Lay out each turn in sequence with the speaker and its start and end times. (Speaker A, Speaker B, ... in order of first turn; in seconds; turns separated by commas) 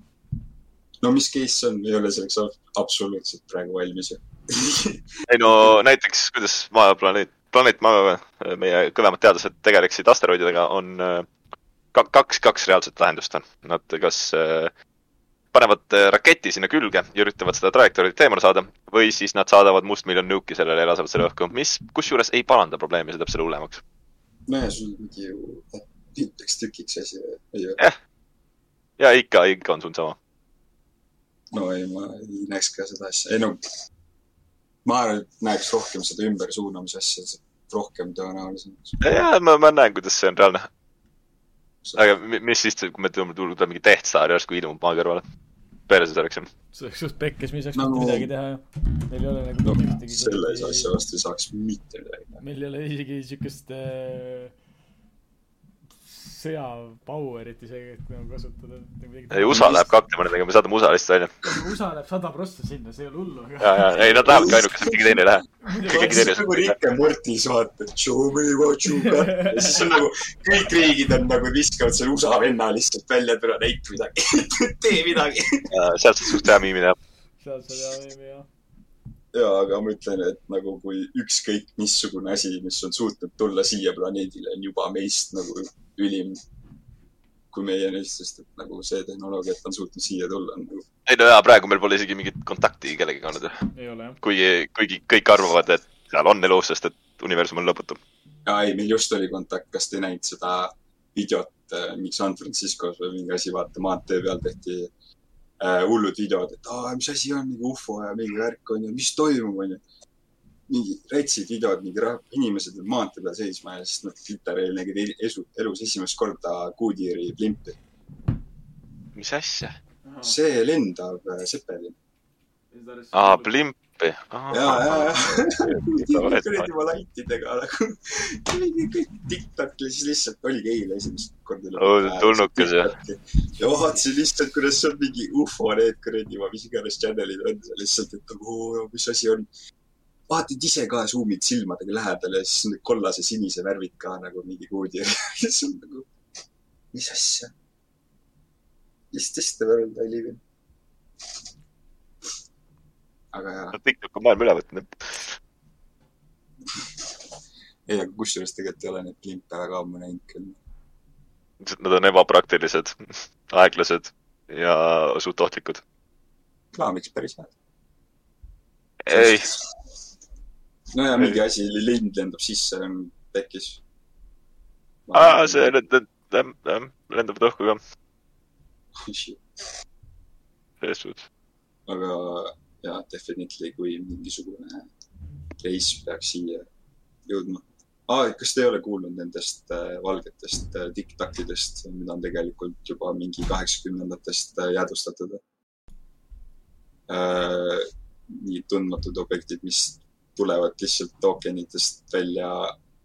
Speaker A: 1.0-5.8, Speaker B: 5.3-11.3, Speaker B: 11.9-14.7, Speaker B: 15.5-23.8, Speaker A: 24.5-27.8, Speaker B: 29.0-30.2, Speaker A: 31.5-33.6, Speaker A: 34.8-39.0, Speaker B: 39.0-40.7, Speaker A: 41.8-42.1, Speaker B: 42.0-45.2, Speaker B: 45.9-46.5, Speaker C: 46.7-50.9, Speaker A: 47.7-48.3, Speaker A: 49.6-52.4, Speaker C: 52.4-54.5, Speaker C: 56.0-59.9, Speaker B: 59.3-61.3, Speaker C: 61.4-64.3, Speaker B: 63.6-66.7, Speaker A: 64.3-65.2, Speaker C: 65.6-66.3, Speaker A: 65.8-75.7, Speaker C: 68.8-70.0, Speaker B: 75.7-77.0, Speaker A: 76.2-76.6, Speaker C: 77.4-78.5, Speaker A: 79.3-86.4, Speaker A: 87.5-90.8, Speaker B: 91.1-93.6, Speaker C: 93.7-94.2, Speaker B: 94.2-98.0, Speaker A: 98.4-104.9, Speaker A: 105.6-109.8, Speaker A: 110.7-117.8, Speaker B: 119.1-119.8, Speaker C: 120.0-120.4, Speaker A: 120.2-122.0, Speaker C: 122.7-123.5, Speaker B: 123.1-126.7, Speaker A: 124.5-139.5, Speaker B: 131.8-132.9, Speaker A: 140.3-146.1, Speaker A: 146.9-147.5, Speaker A: 149.1-150.4, Speaker A: 153.3-153.8, Speaker B: 153.7-155.3, Speaker A: 157.8-160.6, Speaker B: 161.6-165.8, Speaker A: 166.7-167.5, Speaker B: 169.0-169.5, Speaker A: 169.1-169.7, Speaker A: 170.9-173.8, Speaker B: 171.1-171.4, Speaker A: 175.1-175.8, Speaker B: 175.1-177.8, Speaker A: 179.0-179.4, Speaker B: 180.8-181.2, Speaker A: 181.9-184.9, Speaker A: 185.6-186.7, Speaker A: 187.3-195.4, Speaker A: 197.1-202.8